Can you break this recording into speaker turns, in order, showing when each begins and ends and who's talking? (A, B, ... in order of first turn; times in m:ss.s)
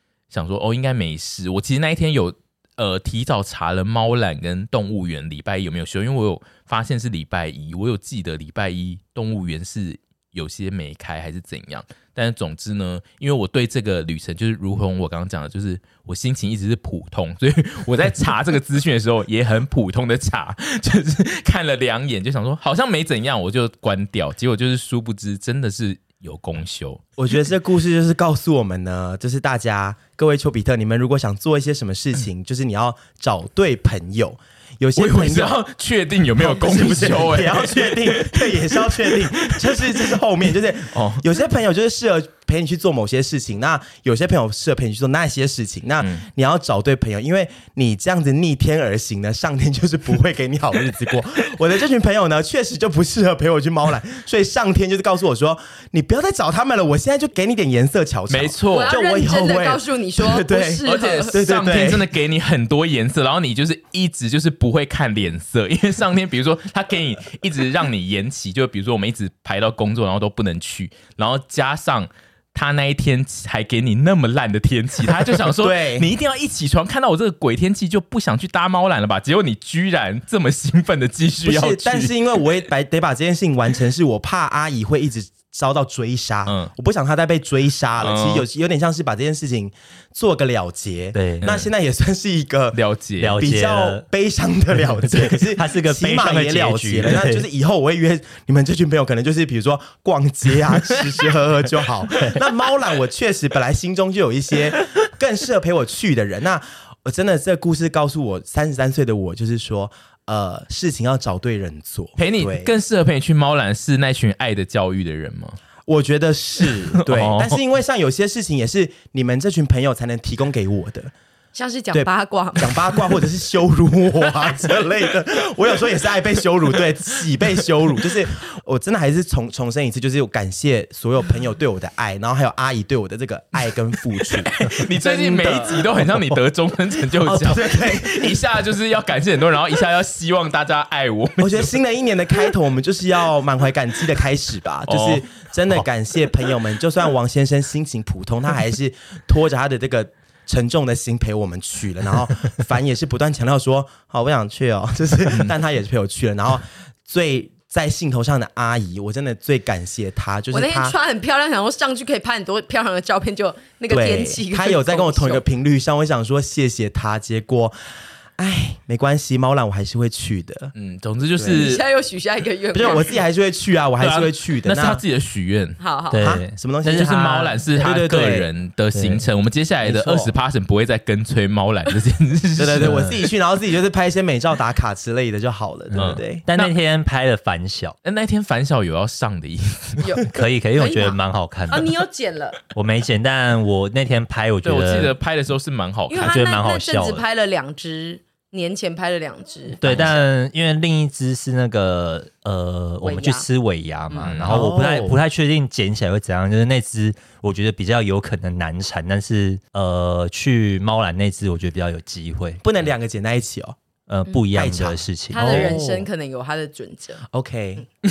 0:00.3-0:27.0 A
0:27.2-0:35.6 B
0:34.9-0:40.2 A
0:36.4-1:02.1 B
0:40.9-0:41.2 A
0:58.3-0:58.9 A
0:58.7-1:01.4 C
1:00.8-1:22.1 A
1:15.4-1:16.1 B
1:21.4-1:32.8 B
1:26.4-1:26.7 A
1:28.0-1:28.4 A
1:31.1-1:31.5 D
1:31.4-1:31.7 A
1:32.7-1:33.4 A
1:33.2-1:34.0 D
1:33.4-1:52.7 B
1:34.9-1:37.4 D
1:52.2-1:55.6 A
1:55.8-2:01.1 B
1:56.7-1:57.6 A
2:01.5-2:03.1 C
2:01.9-2:15.9 B
2:14.6-2:21.8 A
2:17.2-2:18.4 B
2:21.4-2:40.9 B
2:24.9-2:25.2 A
2:40.5-2:45.4 C
2:43.9-2:47.8 B
2:48.4-2:50.7 B
2:50.7-2:51.8 A
2:51.4-2:51.7 B
2:51.4-2:53.2 C
2:52.7-2:55.0 B
2:54.0-2:55.8 A
2:55.8-2:56.2 C
2:56.1-2:57.6 D
2:56.2-2:58.5 B
2:56.9-3:03.1 A
2:58.9-2:59.2 D
2:59.8-3:00.3 B
3:02.6-3:06.4 B
3:02.8-3:03.2 D
3:05.9-3:08.0 D
3:05.9-3:06.8 A
3:08.0-3:10.0 A
3:10.0-3:12.6 C
3:10.3-3:11.9 D
3:12.7-3:15.1 D
3:14.6-3:16.3 A
3:16.1-3:19.8 C
3:16.1-3:17.2 D
3:19.8-3:32.6 D
3:19.8-3:20.1 A
3:23.0-3:23.4 C
3:24.2-3:24.7 A
3:24.5-3:25.2 B
3:32.6-3:33.8 B
3:34.1-3:35.7 D
3:34.5-3:36.1 B
3:35.3-3:37.2 C
3:37.3-3:37.8 B